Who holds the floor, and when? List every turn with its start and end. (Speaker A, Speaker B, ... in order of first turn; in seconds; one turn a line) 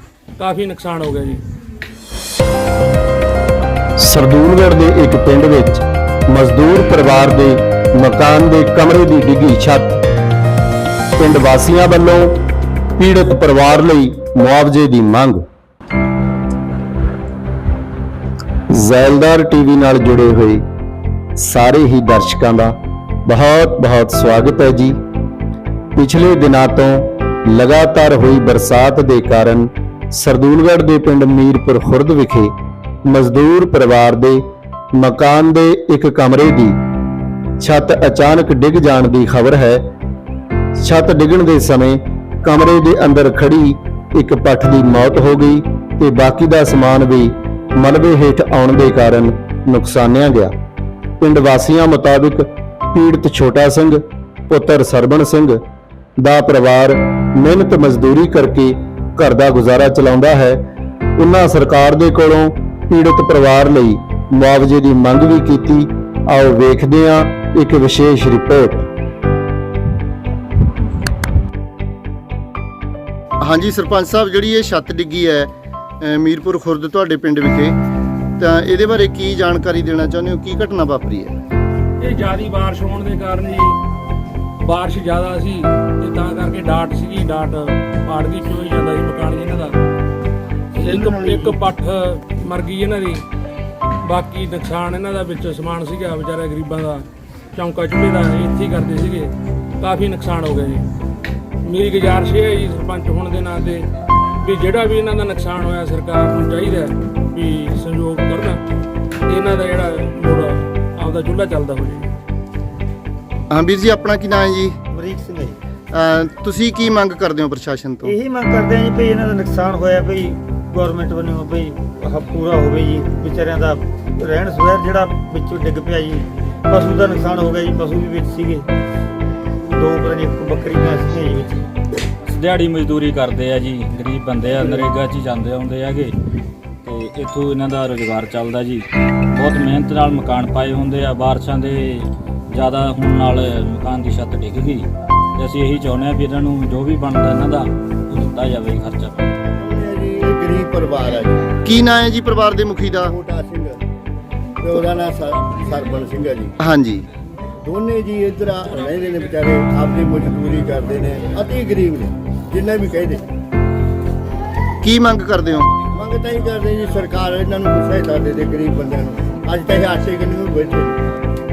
Speaker A: 0.4-1.4
Speaker B: 4.0-9.9
Speaker B: 11.2-12.4
Speaker B: 13.0-15.4
Speaker B: 18.7-20.6
Speaker B: 21.4-22.7
Speaker B: 23.2-25.0
Speaker B: 25.9-32.5
Speaker B: 33.0-34.4
Speaker B: 34.9-36.8
Speaker B: 37.6-39.8
Speaker B: 40.8-50.5
Speaker B: 51.2-55.6
Speaker B: 56.2-60.6
Speaker B: 61.2-68.8
Speaker C: 73.4-77.8
Speaker C: 78.4-81.3
Speaker A: 82.0-83.8
Speaker A: 84.6-89.8
Speaker A: 90.7-93.2
Speaker D: 90.8-91.6
Speaker A: 94.0-100.9
Speaker A: 101.6-103.9
Speaker A: 104.4-108.6
Speaker A: 109.2-112.1
Speaker C: 113.5-114.8
Speaker D: 114.9-115.6
Speaker C: 115.9-118.1
Speaker D: 118.0-128.7
Speaker D: 129.7-131.7
Speaker E: 132.2-136.1
Speaker E: 136.8-149.3
Speaker F: 149.5-151.5
Speaker C: 151.6-153.1
Speaker F: 153.0-153.8
Speaker F: 154.6-156.6
Speaker C: 156.6-157.0
Speaker F: 157.6-163.2
Speaker C: 164.8-165.7
Speaker F: 165.9-171.0